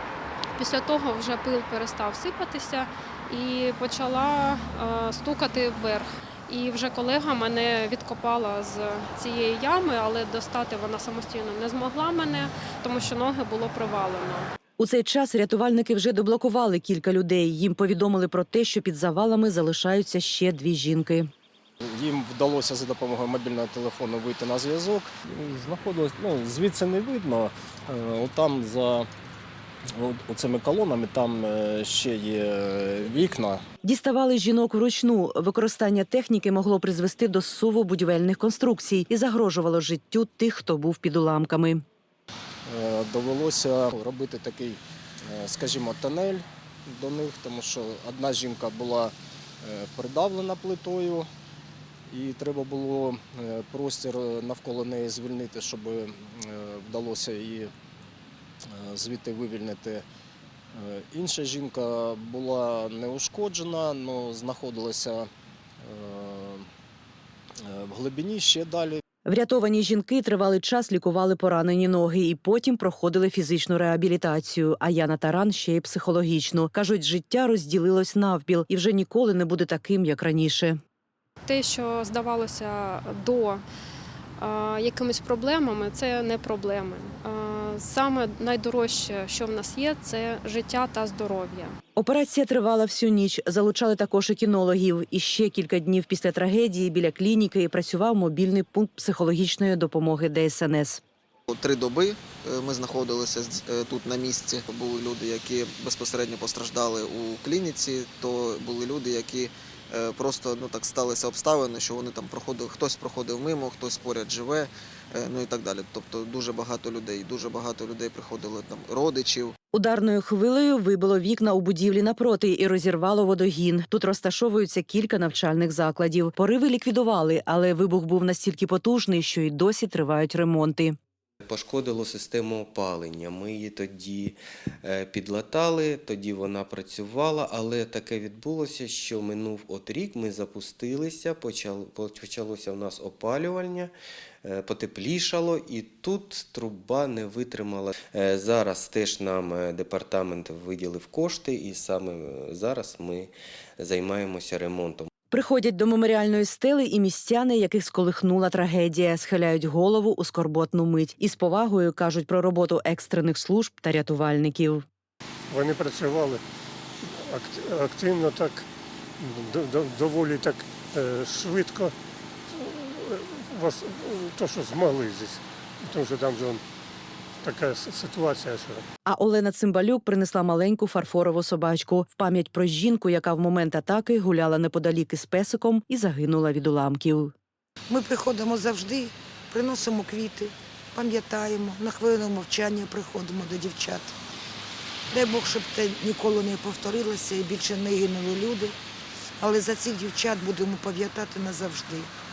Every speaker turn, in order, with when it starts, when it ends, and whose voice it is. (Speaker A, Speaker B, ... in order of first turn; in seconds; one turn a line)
Speaker A: 0.5-14.5
Speaker B: 14.8-21.3
Speaker C: 21.8-29.1
Speaker C: 30.0-33.6
Speaker B: 33.8-41.8
Speaker C: 42.7-51.3
Speaker C: 52.1-57.7
Speaker C: 58.7-60.0
Speaker C: 60.7-65.3
Speaker C: 65.8-66.7
Speaker C: 67.6-69.0
Speaker B: 69.2-80.8
Speaker A: 81.4-83.6
Speaker A: 84.4-91.8
Speaker B: 92.0-101.0
Speaker D: 101.5-119.5
Speaker B: 119.7-131.0
Speaker E: 131.4-143.9
Speaker E: 144.4-155.1
Speaker B: 155.3-164.8
Speaker F: 165.5-166.4
Speaker F: 167.0-168.7
Speaker F: 169.2-171.9
Speaker F: 172.5-176.6
Speaker F: 177.4-178.8
Speaker B: 179.1-187.3
Speaker G: 187.9-194.1
Speaker G: 195.1-198.7
Speaker G: 199.4-202.1